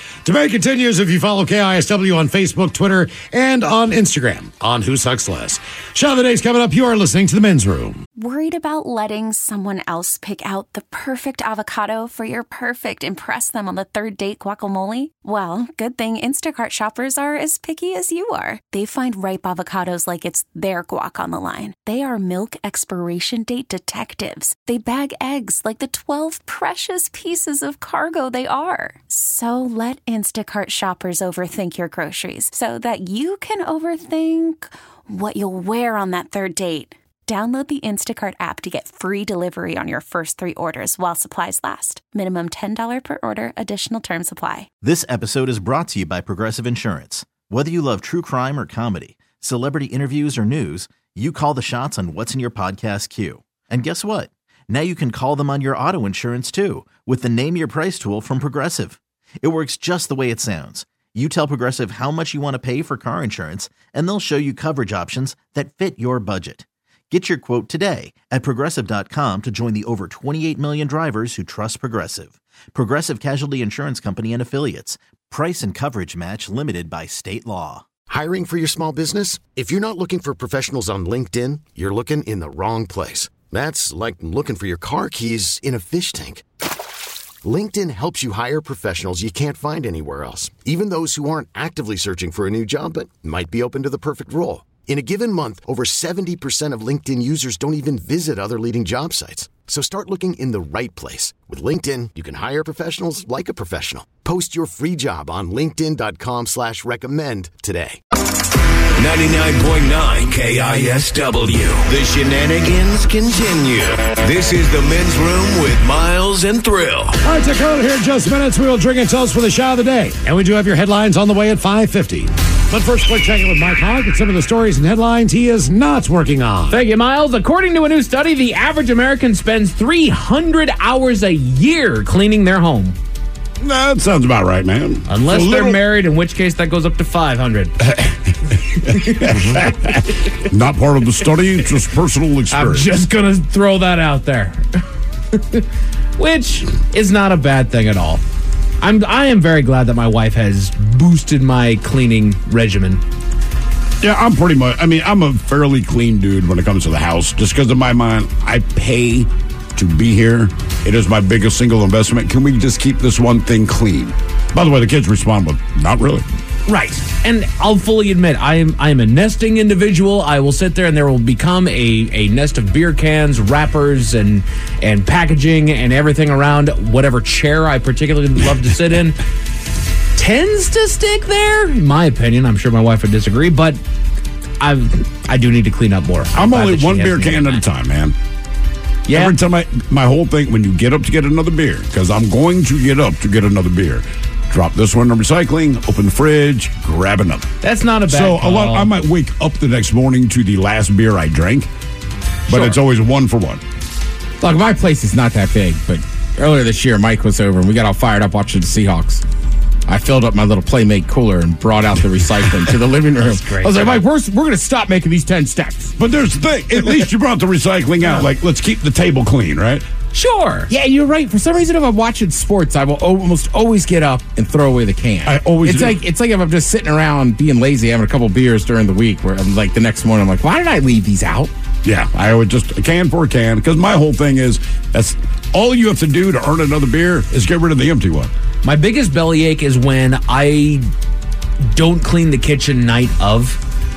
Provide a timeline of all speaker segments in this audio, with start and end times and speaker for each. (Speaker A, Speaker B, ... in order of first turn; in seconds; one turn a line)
Speaker A: 0.2-8.0
Speaker B: 8.2-44.7
Speaker C: 44.8-77.9
Speaker D: 78.1-86.4
Speaker D: 87.4-108.0
Speaker E: 109.0-117.2
Speaker A: 117.2-126.8
Speaker F: 126.7-133.0
Speaker G: 133.6-135.8
Speaker F: 135.1-137.7
Speaker G: 137.8-142.9
Speaker F: 139.1-139.7
Speaker F: 142.5-145.6
Speaker F: 146.2-148.2
Speaker F: 148.8-153.0
Speaker G: 154.0-166.2
Speaker F: 166.7-179.2
Speaker F: 180.2-183.8
Speaker F: 184.6-187.6
Speaker G: 186.3-188.1
Speaker F: 189.1-189.3
Speaker G: 189.1-197.5
Speaker F: 197.6-198.9
Speaker G: 198.1-201.7
Speaker G: 202.5-203.6
Speaker F: 202.5-202.8
Speaker H: 204.4-209.2
Speaker H: 209.9-215.9
Speaker F: 213.3-214.0
Speaker G: 216.0-219.8
Speaker F: 220.1-220.7
Speaker H: 220.7-231.5
Speaker G: 225.2-226.0
Speaker G: 231.8-238.3
Speaker F: 238.6-240.9
Speaker F: 241.7-243.6